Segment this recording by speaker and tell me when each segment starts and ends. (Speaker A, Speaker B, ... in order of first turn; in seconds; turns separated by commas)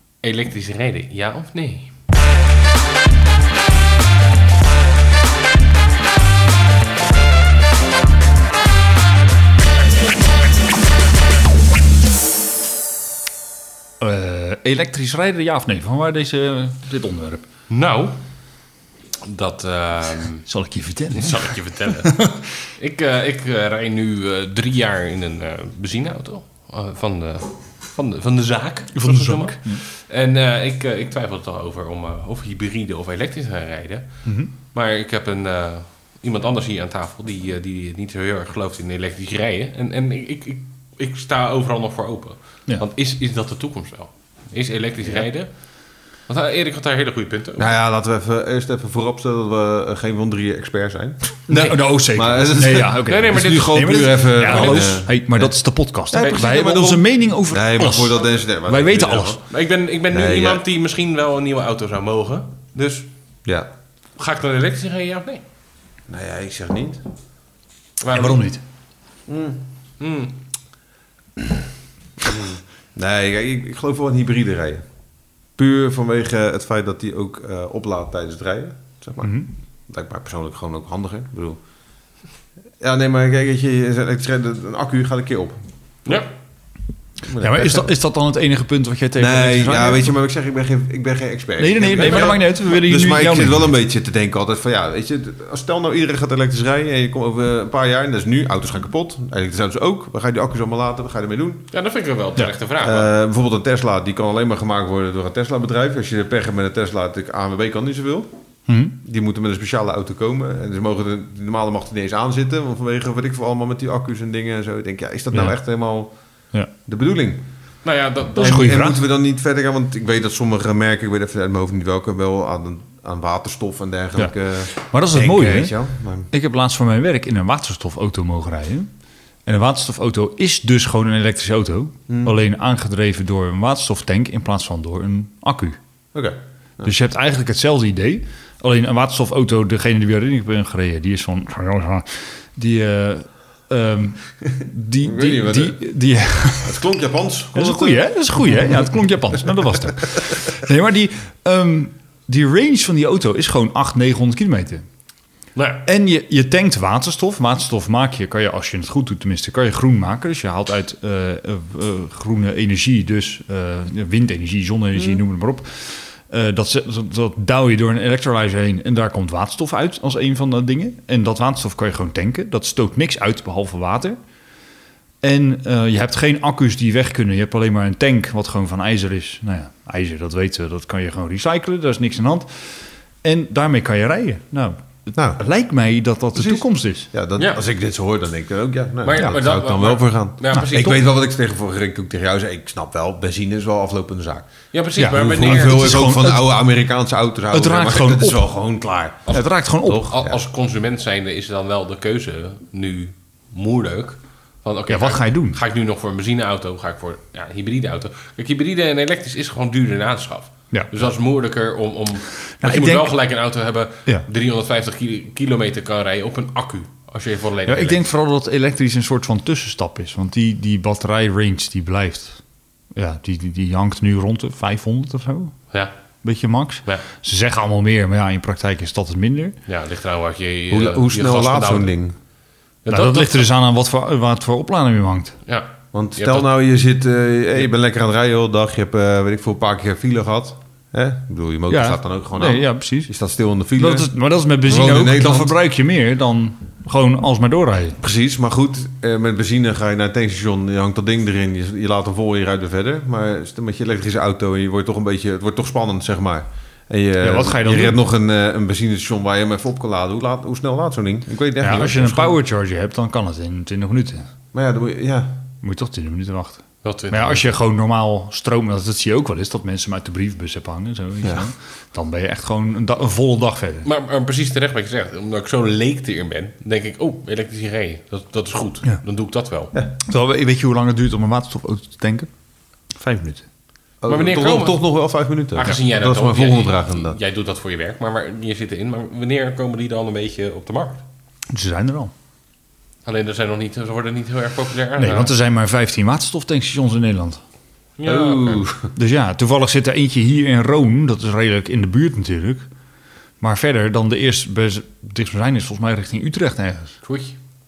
Speaker A: 0.2-1.9, Speaker B: 14.0-17.5, Speaker A: 17.7-18.2, Speaker A: 19.2-20.4, Speaker B: 20.4-22.5, Speaker A: 21.1-45.5, Speaker B: 28.9-29.8, Speaker B: 34.2-34.5, Speaker A: 46.3-47.7, Speaker C: 47.6-51.4, Speaker B: 51.5-59.4, Speaker A: 51.5-51.8, Speaker C: 51.9-55.5, Speaker A: 53.1-53.9, Speaker A: 54.5-54.9, Speaker C: 56.1-59.4, Speaker A: 59.5-63.1, Speaker C: 60.1-60.6, Speaker A: 64.2-65.4, Speaker C: 66.1-67.0, Speaker A: 68.0-68.4, Speaker B: 68.1-68.6, Speaker C: 69.3-69.6, Speaker A: 70.0-70.4, Speaker C: 72.2-74.8, Speaker C: 75.6-81.6, Speaker B: 79.2-79.5, Speaker C: 82.8-85.6, Speaker C: 87.3-87.9, Speaker B: 87.4-90.1, Speaker C: 89.2-101.7, Speaker B: 91.6-93.7, Speaker A: 92.0-92.3, Speaker A: 101.7-103.1, Speaker C: 102.8-108.3, Speaker B: 108.7-109.0, Speaker C: 109.0-116.1, Speaker C: 116.9-117.4, Speaker A: 117.8-118.7, Speaker B: 118.4-119.0, Speaker C: 118.4-126.3, Speaker B: 124.2-125.7, Speaker B: 126.3-128.9, Speaker B: 129.5-135.8, Speaker C: 132.1-132.4, Speaker C: 136.1-136.9, Speaker B: 136.8-146.9, Speaker C: 145.0-145.8, Speaker C: 146.6-148.8, Speaker B: 147.5-154.8, Speaker A: 155.5-155.8, Speaker B: 155.8-174.2, Speaker B: 175.2-187.1, Speaker C: 185.2-185.4, Speaker C: 186.3-194.5, Speaker A: 187.4-187.6, Speaker A: 189.0-191.1, Speaker A: 194.7-196.1, Speaker B: 195.0-196.6, Speaker C: 195.1-200.4, Speaker B: 197.5-198.4, Speaker B: 199.3-200.1, Speaker A: 200.0-218.0, Speaker B: 204.9-205.6, Speaker B: 212.6-213.2, Speaker B: 217.7-222.4, Speaker B: 222.9-225.5, Speaker B: 226.2-229.6, Speaker A: 229.7-231.9, Speaker C: 230.7-232.2, Speaker A: 232.8-233.4, Speaker B: 232.9-235.4, Speaker A: 235.5-236.5, Speaker C: 235.9-244.1, Speaker B: 241.7-243.1, Speaker B: 243.8-248.0, Speaker C: 244.7-245.5, Speaker C: 248.0-262.4, Speaker B: 257.2-258.0, Speaker B: 261.6-264.3, Speaker C: 264.5-265.4, Speaker B: 265.6-273.9, Speaker A: 266.8-267.4, Speaker A: 273.8-279.7, Speaker B: 280.0-282.3, Speaker B: 282.9-283.4, Speaker C: 284.0-287.2, Speaker A: 284.1-284.8, Speaker A: 285.5-291.0, Speaker B: 291.5-292.1, Speaker A: 293.0-295.3, Speaker B: 295.0-297.4, Speaker A: 298.0-298.6, Speaker C: 298.0-298.9, Speaker B: 298.9-302.6, Speaker B: 303.4-307.0, Speaker A: 307.0-307.4